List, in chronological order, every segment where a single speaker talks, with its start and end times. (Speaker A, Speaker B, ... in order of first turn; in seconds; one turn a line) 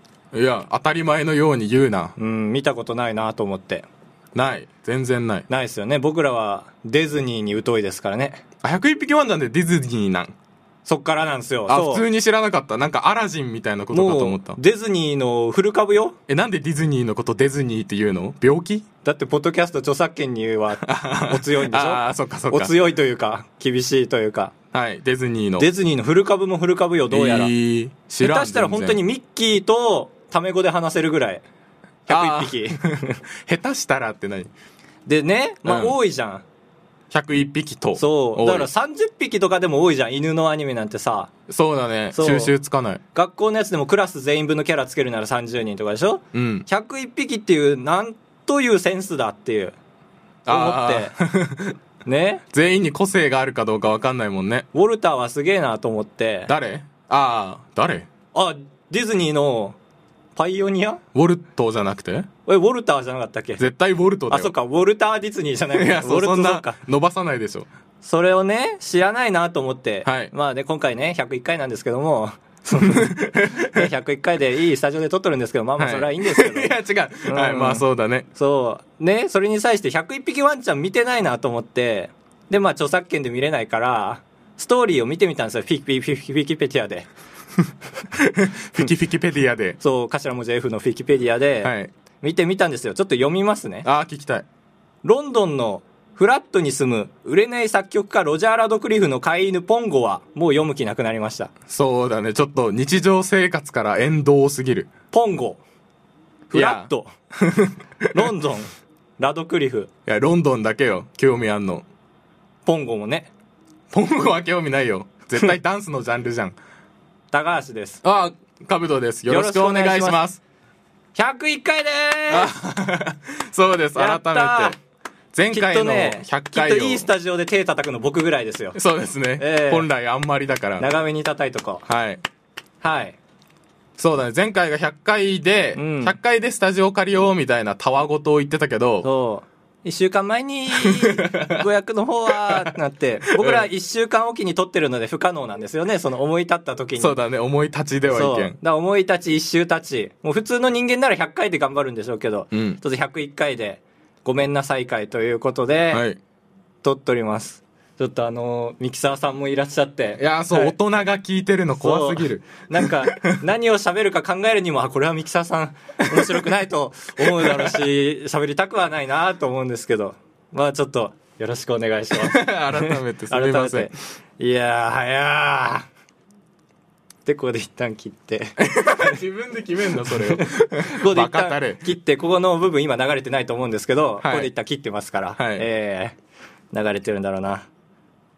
Speaker A: 0.3-2.1
Speaker B: 2.2-3.9
Speaker A: 4.3-5.5
Speaker B: 5.5-8.4
Speaker A: 8.6-10.3
Speaker B: 10.9-12.1
Speaker A: 11.7-14.6
Speaker B: 13.9-16.2
Speaker A: 16.3-18.9
Speaker B: 19.0-24.6
Speaker A: 20.8-22.7
Speaker A: 24.7-25.7
Speaker B: 25.6-27.5
Speaker A: 27.1-29.0
Speaker B: 28.2-31.4
Speaker B: 32.1-33.2
Speaker A: 32.1-34.5
Speaker B: 35.1-36.5
Speaker A: 35.6-36.0
Speaker A: 37.1-38.7
Speaker B: 38.0-41.3
Speaker A: 41.5-43.0
Speaker B: 42.1-42.5
Speaker B: 43.1-49.8
Speaker A: 46.3-46.7
Speaker A: 50.5-51.8
Speaker B: 50.5-51.2
Speaker B: 52.1-52.4
Speaker A: 52.5-54.7
Speaker B: 54.7-56.5
Speaker A: 56.5-58.1
Speaker B: 58.3-59.8
Speaker B: 60.4-61.0
Speaker A: 61.1-62.3
Speaker B: 62.5-63.6
Speaker A: 63.6-64.5
Speaker B: 64.3-66.8
Speaker A: 65.7-67.7
Speaker B: 68.0-76.7
Speaker A: 70.0-70.3
Speaker A: 72.8-73.9
Speaker A: 75.8-78.3
Speaker B: 77.2-87.1
Speaker A: 88.1-89.8
Speaker B: 89.8-93.9
Speaker A: 91.6-91.9
Speaker A: 93.8-94.5
Speaker B: 95.0-101.5
Speaker A: 101.7-104.9
Speaker B: 105.1-105.6
Speaker B: 106.5-109.9
Speaker A: 106.5-106.9
Speaker A: 110.1-111.8
Speaker B: 112.7-113.3
Speaker A: 113.9-116.6
Speaker B: 117.3-118.0
Speaker A: 118.0-120.4
Speaker B: 119.3-120.2
Speaker B: 121.2-122.5
Speaker A: 122.3-124.8
Speaker B: 124.0-124.8
Speaker A: 125.3-127.1
Speaker B: 125.5-128.8
Speaker A: 128.8-130.9
Speaker B: 129.4-129.9
Speaker B: 130.8-131.8
Speaker A: 131.9-132.2
Speaker B: 132.8-133.2
Speaker A: 134.0-139.1
Speaker B: 135.8-136.2
Speaker B: 139.0-147.2
Speaker A: 140.8-141.6
Speaker A: 142.3-142.7
Speaker A: 143.3-143.7
Speaker A: 147.0-148.6
Speaker B: 148.1-156.0
Speaker A: 152.5-152.8
Speaker A: 155.9-156.2
Speaker B: 156.8-160.8
Speaker A: 160.2-163.3
Speaker B: 161.8-175.9
Speaker A: 166.2-166.4
Speaker A: 167.2-167.9
Speaker A: 172.1-173.9
Speaker B: 177.3-179.2
Speaker A: 178.6-181.9
Speaker B: 180.1-186.2
Speaker A: 184.2-184.5
Speaker A: 185.4-185.7
Speaker B: 186.7-187.7